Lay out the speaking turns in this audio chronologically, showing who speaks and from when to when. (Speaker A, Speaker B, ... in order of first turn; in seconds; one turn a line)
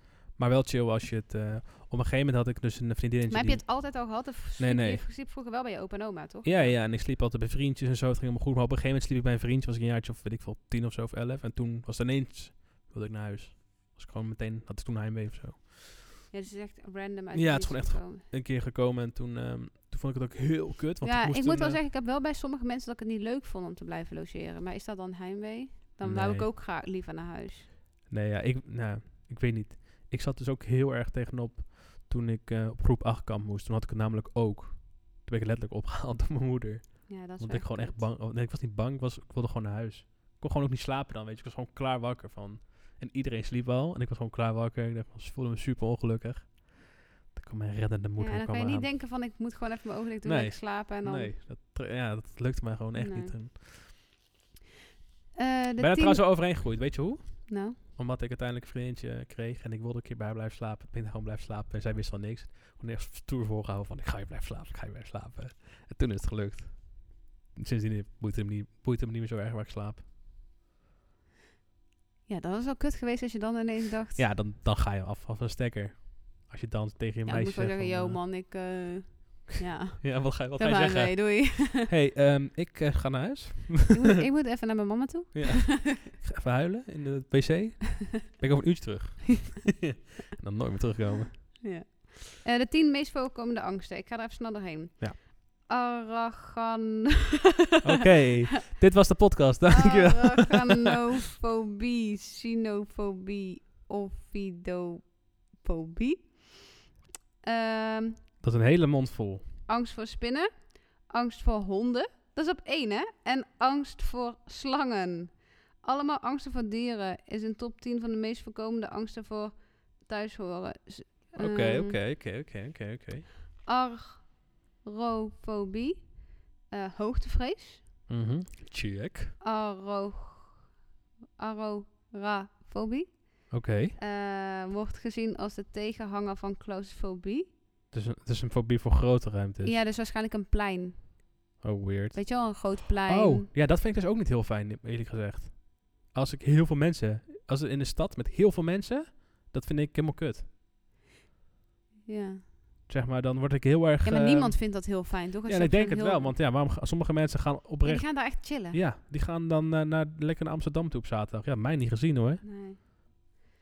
Speaker A: 0.3-5.0
Speaker B: 3.3-6.8
Speaker A: 6.4-15.9
Speaker B: 16.3-18.2
Speaker A: 17.3-21.8
Speaker B: 21.0-27.7
Speaker A: 26.0-26.5
Speaker A: 28.1-48.9
Speaker B: 37.1-38.1
Speaker B: 48.2-51.3
Speaker A: 50.2-53.8
Speaker B: 52.9-53.4
Speaker B: 55.3-56.2
Speaker A: 55.8-70.0
Speaker B: 57.5-57.8
Speaker B: 72.3-74.3
Speaker A: 74.2-78.8
Speaker B: 77.2-81.9
Speaker A: 80.0-84.0
Speaker B: 83.9-86.0
Speaker A: 85.3-91.6
Speaker B: 91.3-97.8
Speaker A: 97.8-100.9
Speaker B: 99.7-106.9
Speaker B: 107.4-108.2
Speaker A: 108.4-109.5
Speaker B: 109.7-122.0
Speaker A: 121.3-123.3
Speaker B: 123.6-126.2
Speaker B: 126.7-127.8
Speaker A: 128.1-129.3
Speaker B: 129.4-130.7
Speaker B: 131.4-137.5
Speaker A: 133.5-133.9
Speaker A: 137.9-139.8
Speaker B: 139.6-141.2
Speaker A: 141.6-150.5
Speaker B: 142.1-143.5
Speaker B: 152.1-152.5
Speaker A: 152.9-162.4
Speaker B: 154.0-156.3
Speaker B: 157.8-158.8
Speaker B: 162.4-162.8